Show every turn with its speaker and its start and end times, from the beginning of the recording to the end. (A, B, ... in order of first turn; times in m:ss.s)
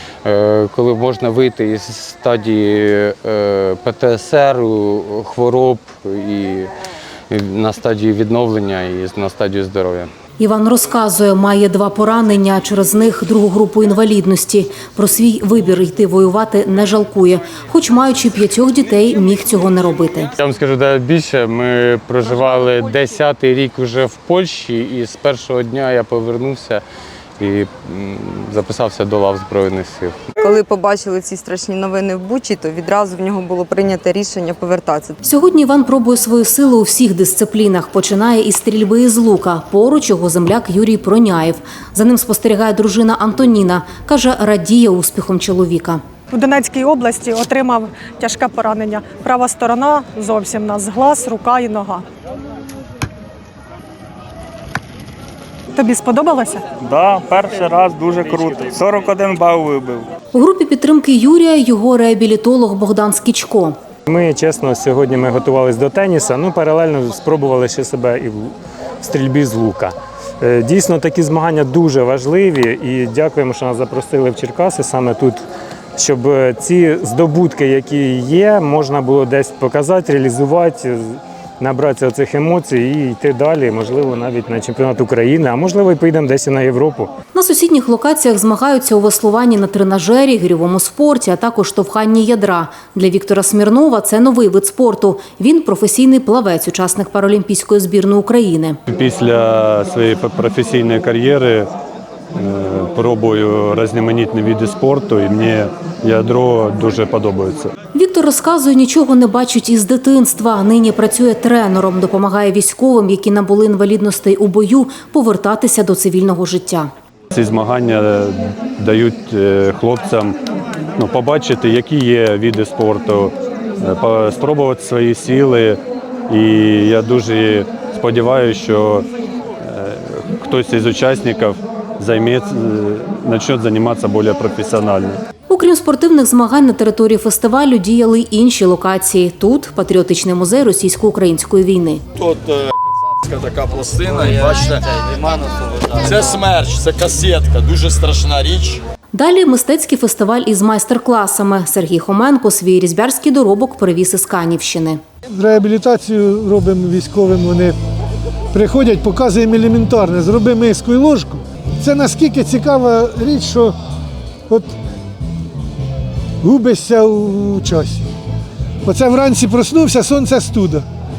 0:00.2-0:06.7 A
0:07.3-0:10.1 A
0:10.4-0:20.3 B
0:20.4-0:26.8 A
0:27.4-0:30.2 A
0:30.4-0:35.2 C
0:35.2-0:46.0 B
0:46.4-0:52.0 D
0:55.8-0:56.5 D
0:56.8-1:00.1 E
1:00.3-1:03.8 B
1:04.1-1:15.4 F
1:16.0-1:27.1 F
1:27.3-1:38.8 B
1:38.9-1:41.7 G
1:42.4-1:47.7 G
1:47.9-1:56.9 B
1:57.3-2:00.4 G
2:01.0-2:09.1 G
2:09.6-2:15.2 G
2:15.5-2:22.0 B
2:22.2-2:22.7 H
2:23.2-2:28.8 H
2:29.1-2:35.0 B
2:35.3-2:37.8 I
2:38.5-2:43.7 I
2:44.5-2:44.7 I
2:46.4-2:48.1 I
2:48.8-2:50.8 I